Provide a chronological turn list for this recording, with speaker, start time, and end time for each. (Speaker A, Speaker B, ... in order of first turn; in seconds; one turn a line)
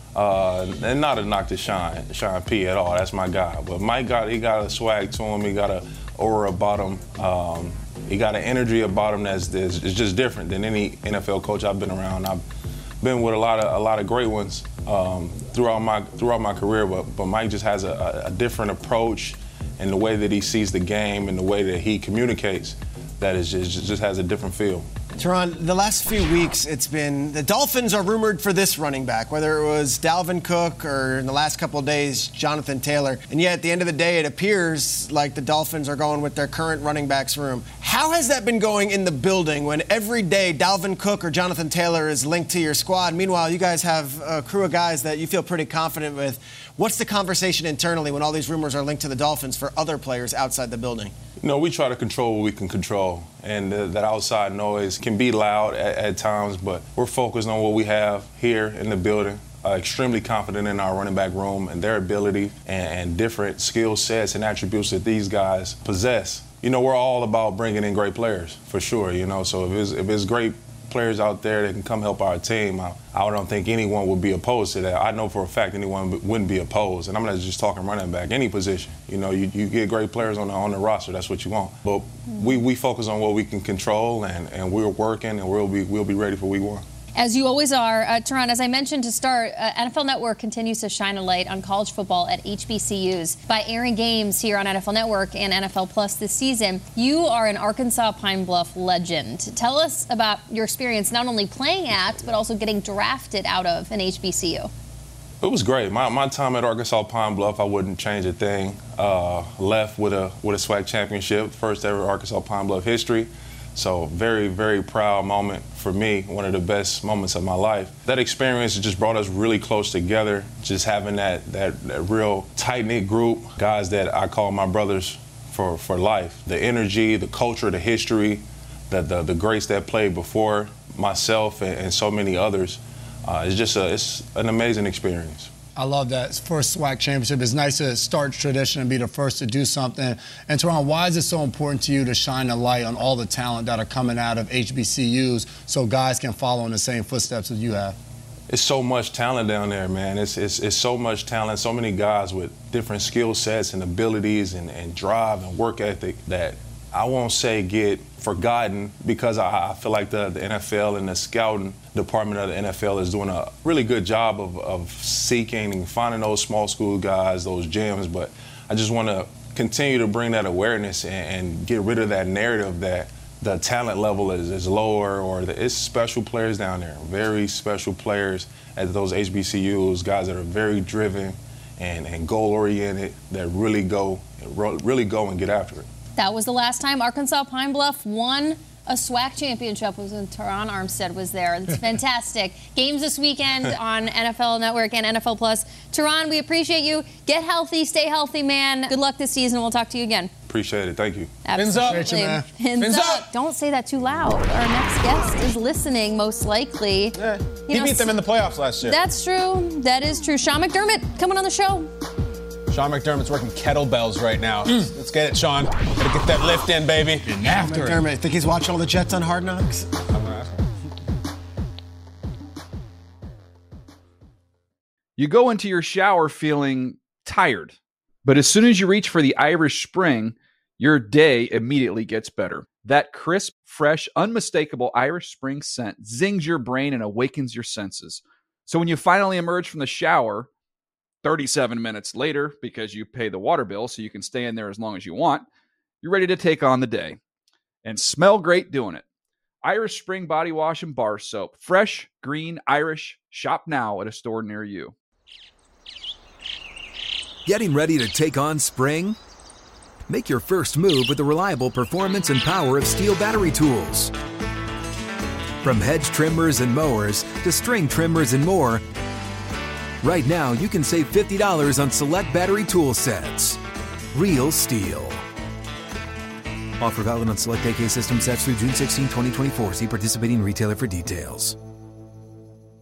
Speaker A: 0.1-12.4
Speaker A: 13.0-24.9
Speaker B: 25.2-51.1
Speaker A: 51.4-86.8
Speaker C: 87.2-104.7
Speaker A: 105.4-135.5
Speaker D: 135.8-148.0
Speaker A: 148.5-185.8
Speaker C: 186.2-200.3
Speaker A: 200.5-201.4
Speaker C: 201.4-208.1
Speaker E: 201.5-202.1
Speaker D: 201.8-202.5
Speaker E: 202.7-203.2
Speaker E: 207.1-209.0
Speaker C: 208.8-211.9
Speaker E: 212.7-217.4
Speaker D: 217.2-218.0
Speaker B: 217.4-219.9
Speaker E: 220.1-220.6
Speaker F: 225.2-240.5
Speaker F: 241.2-245.4
Speaker F: 246.0-247.2
Speaker F: 247.8-249.0
Speaker F: 249.6-254.9
Speaker G: 257.4-259.2
Speaker G: 260.1-264.1
Speaker G: 265.6-268.8
Speaker G: 270.0-273.6
Speaker G: 274.1-275.2
Speaker G: 276.8-281.6